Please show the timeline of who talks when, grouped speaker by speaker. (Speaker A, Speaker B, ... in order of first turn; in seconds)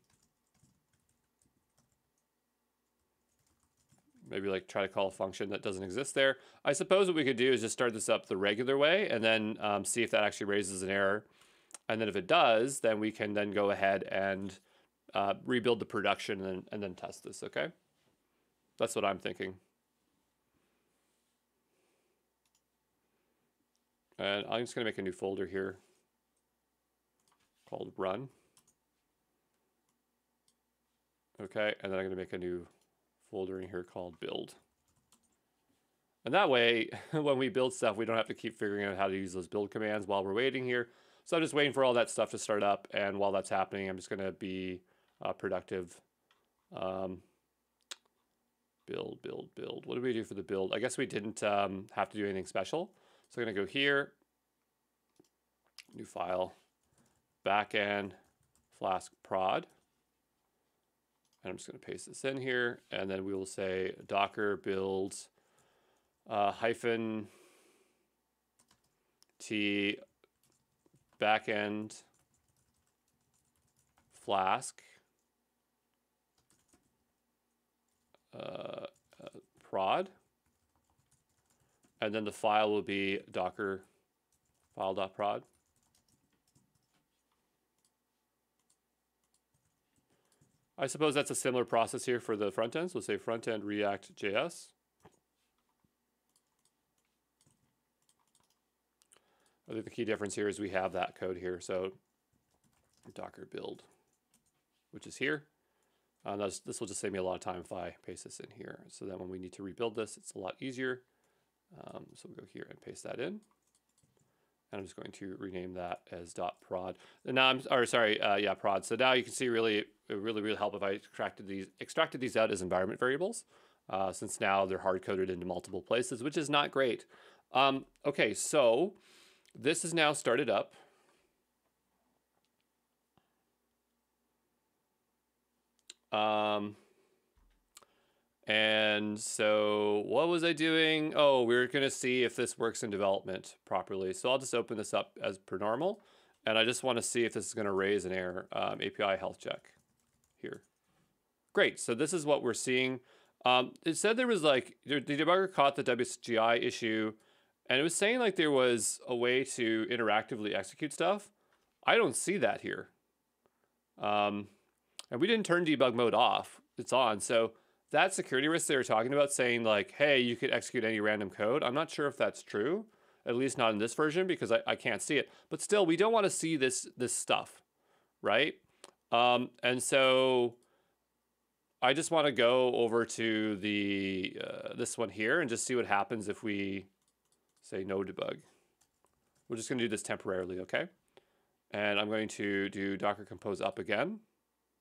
Speaker A: 4.2-11.3, 11.9-14.6, 15.1-17.7, 18.8-19.6, 24.2-25.8, 27.6-28.3, 31.4-32.7, 33.2-34.6, 36.2-46.0, 46.7-47.2, 48.9-54.1, 55.9-56.5, 57.4-58.2, 58.7-59.7, 61.4-65.3, 66.3-67.3, 69.4-70.0, 71.2-72.0, 74.1-74.9, 78.3-80.1, 82.0-83.8, 84.7-85.4, 90.8-94.7, 99.7-102.0, 103.1-103.9, 104.9-105.5, 106.2-111.0, 111.7-113.4, 114.7-129.0, 129.5-130.8, 136.1-136.8, 138.4-149.8, 150.4-150.6, 151.5-161.3, 161.8-162.9, 164.0-164.5, 165.1-177.6, 178.2-180.6, 181.8-186.9, 187.6-188.4, 189.5-190.9, 191.7-194.2